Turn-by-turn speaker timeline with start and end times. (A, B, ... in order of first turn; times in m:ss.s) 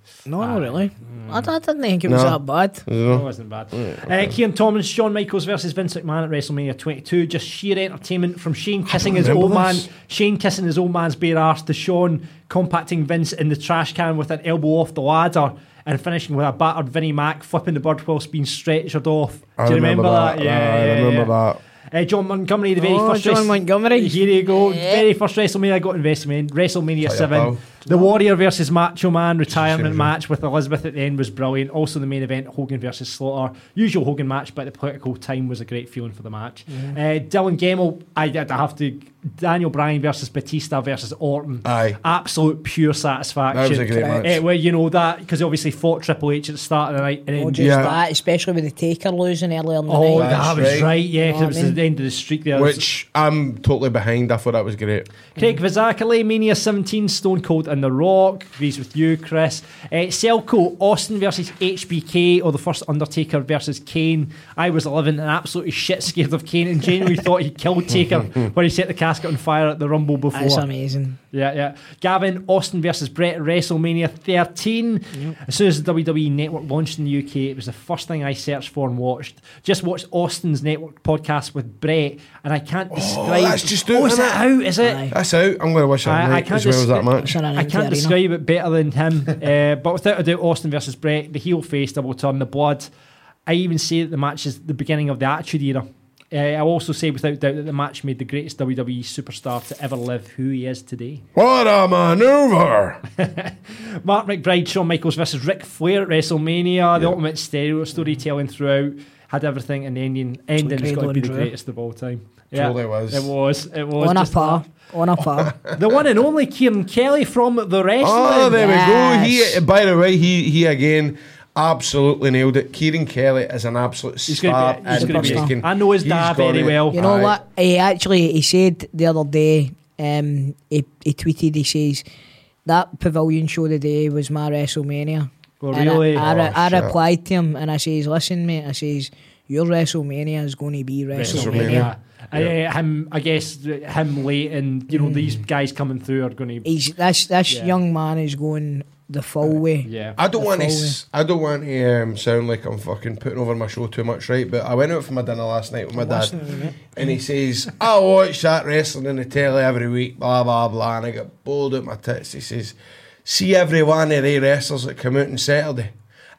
0:00.2-0:02.9 A
0:00.4-0:01.4 B
0:02.0-0:04.4 C
0:03.1-0:21.3 B
0:08.9-0:09.9 C
0:19.6-0:21.6 C
0:21.9-0:48.0 B
0:22.8-0:25.0 A
0:27.0-0:27.6 C
0:29.5-0:30.1 C
0:36.7-0:37.0 A
0:41.6-0:42.0 C
0:43.5-0:44.4 C
0:43.9-0:44.3 A
0:47.3-0:51.8 A
0:47.6-0:48.0 C
0:49.9-0:52.8 B
0:50.1-0:50.9 C
0:52.5-0:55.1 C
0:55.4-1:10.6 B
1:10.3-1:11.2 A
1:11.3-1:25.0 B
1:22.9-1:24.4 C
1:24.8-1:25.1 A
1:25.1-1:27.4 C
1:26.0-1:32.9 B
1:27.2-1:28.1 A
1:33.5-1:41.2 B
1:41.3-1:43.0 C
1:43.2-1:54.6 B
1:50.6-1:51.5 A
1:52.5-1:53.3 C
1:54.0-1:55.5 A
1:55.2-1:55.8 C
1:55.7-1:58.6 B
1:58.0-2:07.4 C
1:58.5-1:59.6 A
2:04.3-2:07.0 B
2:04.9-2:05.5 A
2:06.9-2:12.0 A
2:12.6-2:21.9 A
2:15.6-2:16.3 B
2:16.2-2:16.9 C
2:21.1-2:26.7 B
2:21.2-2:22.5 C
2:24.9-2:25.2 A
2:26.6-2:31.0 A
2:27.5-2:27.8 B
2:29.8-2:30.2 B
2:30.2-2:36.4 C
2:35.9-2:36.9 A
2:36.9-2:45.9 C